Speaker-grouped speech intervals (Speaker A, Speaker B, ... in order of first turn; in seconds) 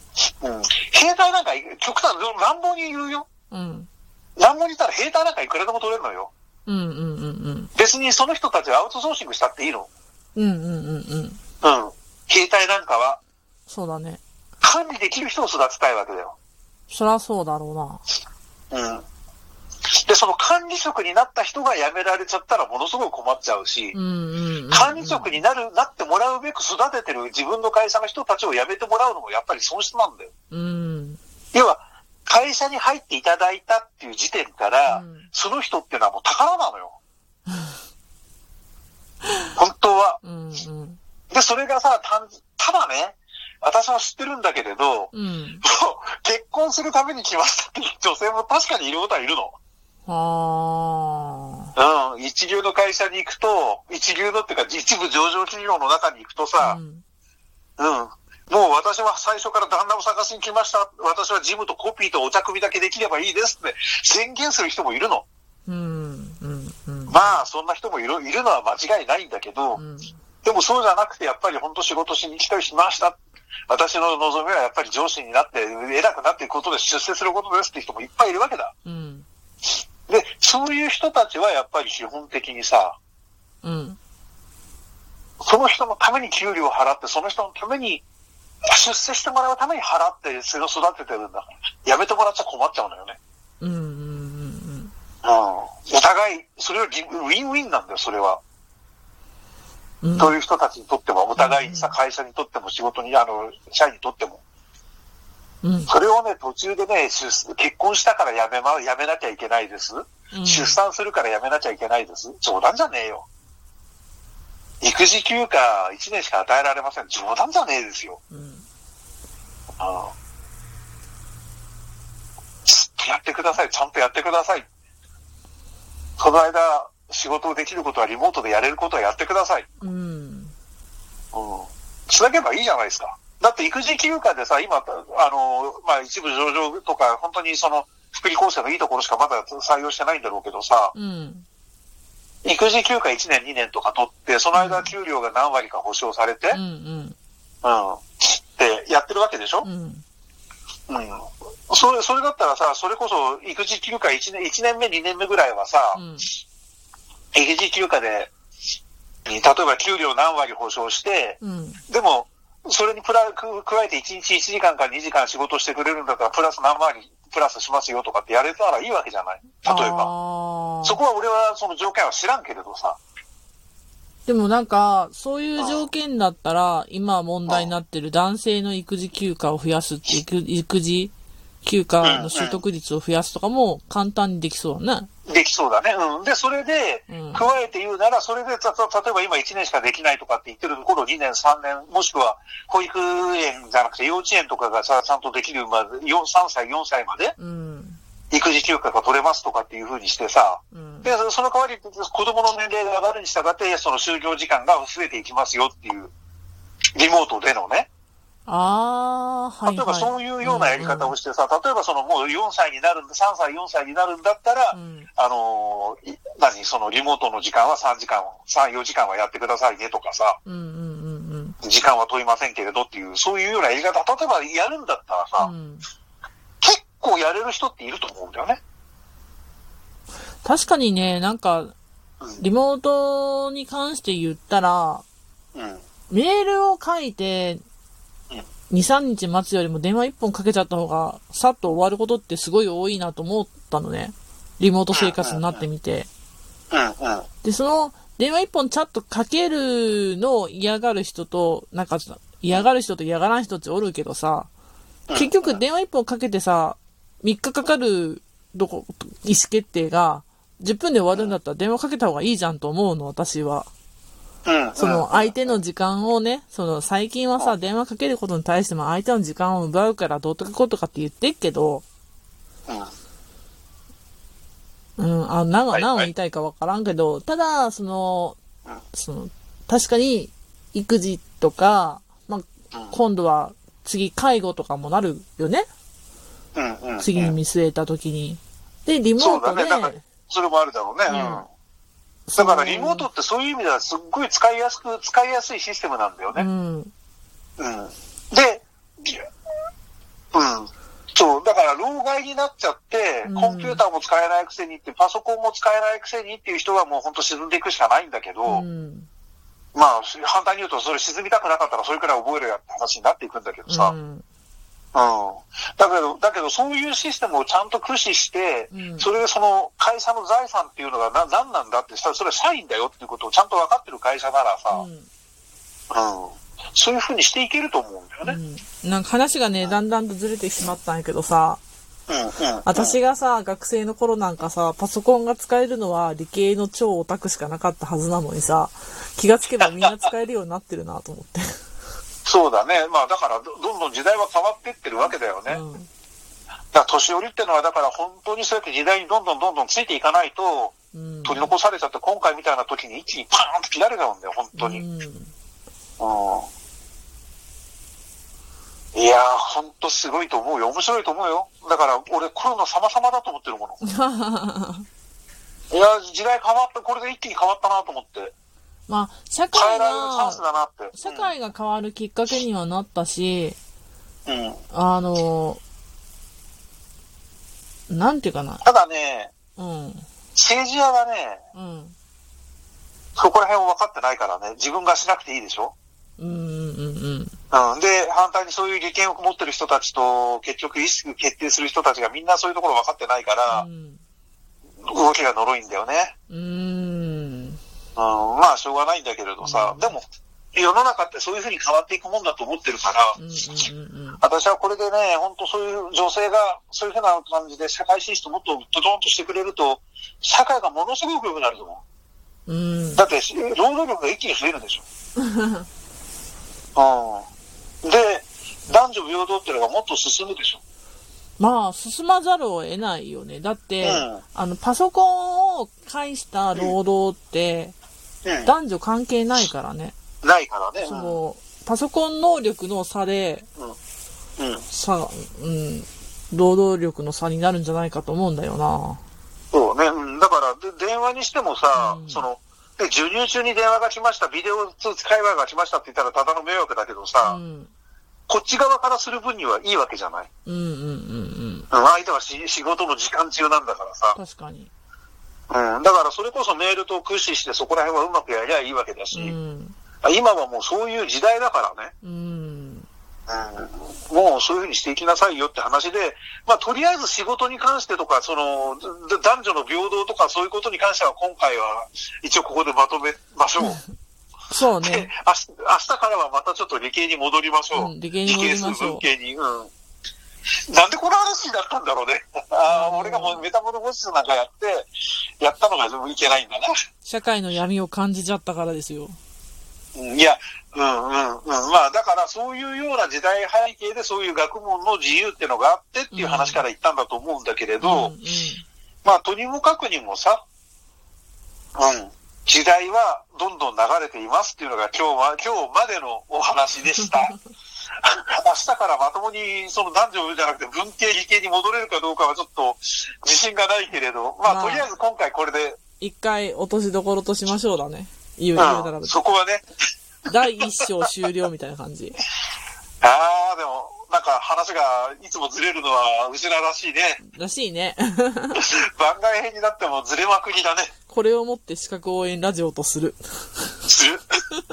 Speaker A: 0.4-3.3, 4.4-6.3, 7.8-9.9, 11.6-13.2, 14.6-16.4, 18.7-19.0, 19.9-24.0, 24.7-30.3, 31.5-37.0, 39.6-40.2, 41.3-49.5, 51.8-56.8, 57.8-65.2, 67.1-69.8, 70.4-78.7, 80.1-83.0, 85.4-88.0, 88.7-93.2, 95.2-98.4, 100.2-104.4, 105.9-113.2, 114.8-118.2, 119.8-120.1, 122.7-124.7, 126.2-129.7, 131.3-140.9, 142.4-146.6, 147.6-149.7, 150.9-156.0, 157.3-158.3, 159.3-170.1, 170.8-173.0, 175.6-175.9, 177.5-177.7, 182.0-182.6, 185.3-197.3, 198.3-206.1, 206.9-207.9, 209.7-220.4, 221.6-225.5, 226.6-228.6, 235.5-235.8, 244.9-245.7, 246.7-247.3, 255.1-255.6, 264.5-265.6, 275.7-276.1, 286.6-287.4, 289.2-291.5, 292.4-296.5, 297.6-299.3, 300.3-308.6, 309.8-313.9, 314.9-324.9, 325.9-328.4, 332.1-333.0, 339.6-340.0, 342.2-345.6, 346.7-350.7, 351.2-354.8, 356.0-356.5, 358.9-363.8, 365.7-368.3, 369.5-371.3, 374.3-374.6, 378.6-379.3, 380.4-381.4, 383.2-385.7, 387.5-393.7, 394.9-396.1, 397.9-400.0, 400.5-403.2, 404.2-411.8, 412.9-414.9, 416.8-417.2, 417.8-420.6, 423.8-424.2, 428.2-428.5, 430.2-431.2, 434.4-434.6, 439.5-447.4, 448.3-450.3, 451.7-454.2, 455.5-459.4, 460.0-461.9, 463.3-473.8, 474.8-479.7, 480.7-484.9, 485.4-486.7, 489.9-498.1, 499.0-500.4, 501.8-507.4, 508.0-515.8, 518.5-519.6, 523.0-527.2, 528.6-530.9, 533.9-534.2
Speaker B: 3.5-3.9, 6.7-7.7, 10.3-11.4, 13.7-14.2, 16.9-18.0, 23.9-25.4, 30.5-31.2, 34.9-35.3, 37.5-37.8, 40.2-41.0, 45.1-45.6, 50.1-51.7, 56.6-57.0, 65.7-67.4, 69.8-70.2, 78.8-79.3, 83.6-84.0, 93.6-94.9, 100.0-100.4, 101.3-102.0, 105.6-105.9, 110.3-110.8, 118.3-118.7, 129.8-130.5, 140.9-141.4, 144.5-144.9, 146.5-147.2, 149.6-150.0, 155.9-156.3, 161.4-161.8, 169.6-171.0, 174.3-181.1, 181.6-185.1, 187.1-187.5, 197.4-198.0, 200.7-201.1, 208.5-211.2, 214.7-215.1, 220.4-221.6, 225.4-225.8, 230.4-231.7, 232.4-235.0, 236.1-237.6, 238.7-246.1, 247.4-254.5, 255.1-263.7, 264.8-271.8, 275.0-278.4, 278.9-285.7, 287.0-290.0, 291.1-291.4, 292.3-293.1, 296.4-296.9, 303.2-303.8, 308.5-309.1, 313.7-314.2, 318.7-319.1, 324.7-325.1, 328.2-331.6, 332.6-341.6, 345.5-345.9, 350.9-351.5, 354.5-355.3, 363.9-364.9, 368.9-370.4, 370.9-373.6, 374.7-375.6, 377.9-378.6, 379.6-380.1, 381.5-381.9, 386.2-387.3, 393.5-394.0, 396.3-397.6, 399.4-399.9, 403.2-404.2, 412.5-413.1, 415.2-415.6, 421.4-427.8, 428.4-429.9, 430.8-433.5, 434.7-439.0, 441.8-442.3, 447.2-447.7, 450.4-451.7, 454.1-454.7, 459.1-459.8, 462.0-462.9, 474.5-475.1, 477.7-479.1, 482.7-483.4, 487.0-489.2, 496.1-496.6, 497.8-498.6, 514.5-514.9, 516.0-519.2, 520.3-522.2, 527.2-528.6, 531.1-533.9